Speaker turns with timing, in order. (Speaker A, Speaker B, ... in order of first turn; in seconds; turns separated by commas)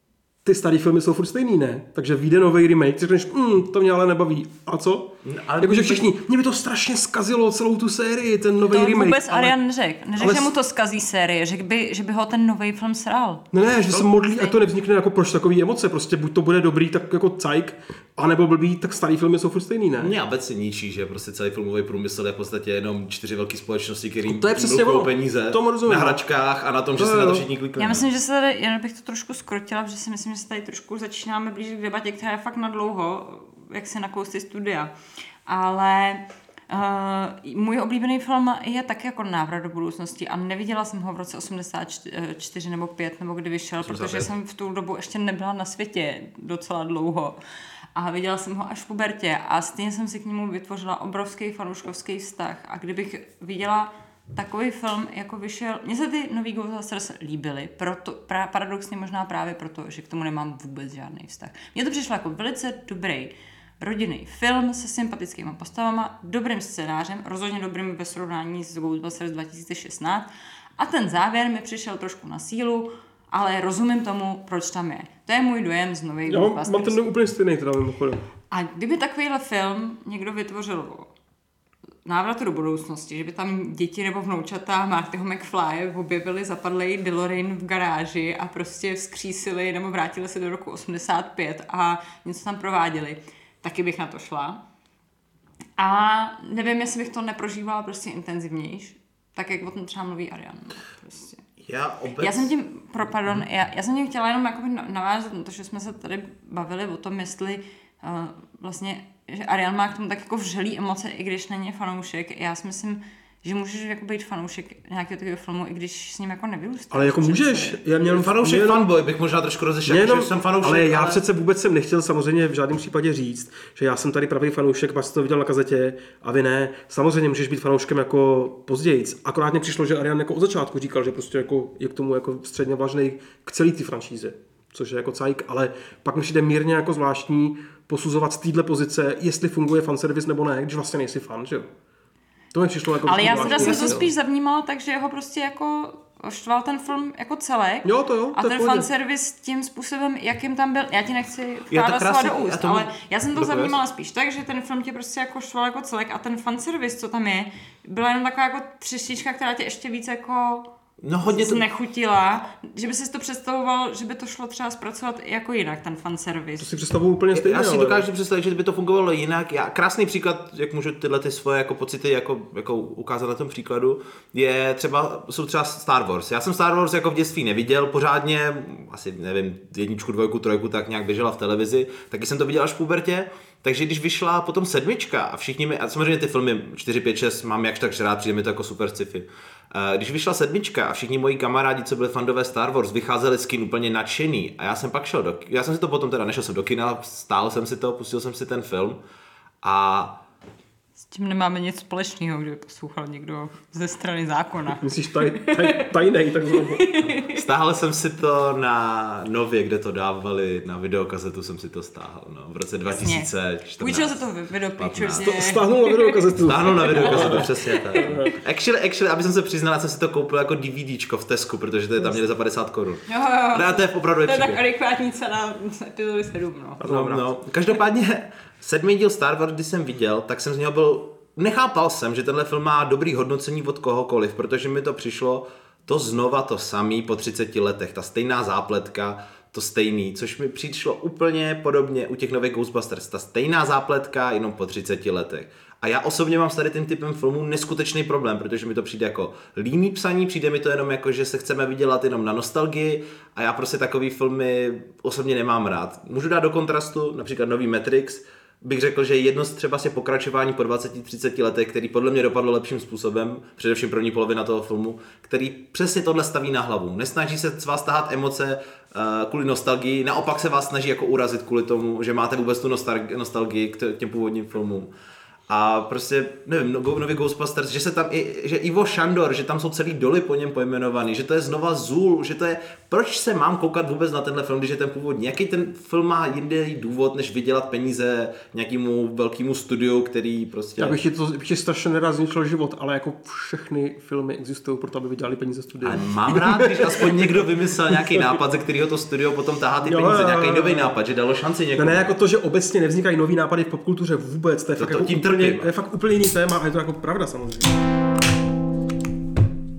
Speaker A: 0.5-9.6, Speaker B: 5.2-6.1, Speaker C: 8.7-13.4, Speaker A: 10.2-10.5, Speaker A: 13.5-20.1, Speaker B: 20.0-28.1, Speaker A: 24.2-26.2, Speaker A: 27.0-27.5, Speaker C: 27.8-34.9, Speaker C: 35.5-47.4, Speaker B: 43.8-44.3, Speaker C: 48.0-77.0, Speaker A: 76.3-78.2, Speaker C: 78.5-81.1, Speaker C: 82.1-94.6, Speaker C: 95.8-101.4, Speaker B: 101.6-102.5, Speaker C: 102.2-117.8, Speaker A: 116.9-118.8, Speaker B: 118.1-121.2, Speaker A: 119.9-141.7, Speaker A: 142.5-144.1, Speaker C: 143.1-160.7, Speaker B: 143.4-144.0, Speaker A: 147.8-148.9, Speaker B: 151.7-153.8, Speaker B: 161.0-161.7, Speaker C: 161.3-166.7, Speaker A: 166.6-168.1, Speaker B: 167.3-199.0, Speaker B: 199.6-200.2, Speaker C: 201.1-205.8, Speaker A: 204.8-206.9, Speaker C: 206.8-207.3, Speaker B: 207.3-214.2, Speaker C: 212.9-213.3, Speaker C: 213.8-216.2, Speaker B: 214.8-215.3, Speaker A: 215.2-218.3, Speaker B: 216.5-224.6, Speaker C: 216.8-217.5, Speaker C: 223.1-226.8, Speaker A: 226.8-227.3, Speaker B: 226.8-274.9, Speaker B: 275.5-291.0, Speaker A: 290.8-298.4, Speaker B: 295.8-302.1, Speaker A: 299.8-300.9, Speaker A: 301.8-307.8, Speaker B: 304.8-305.7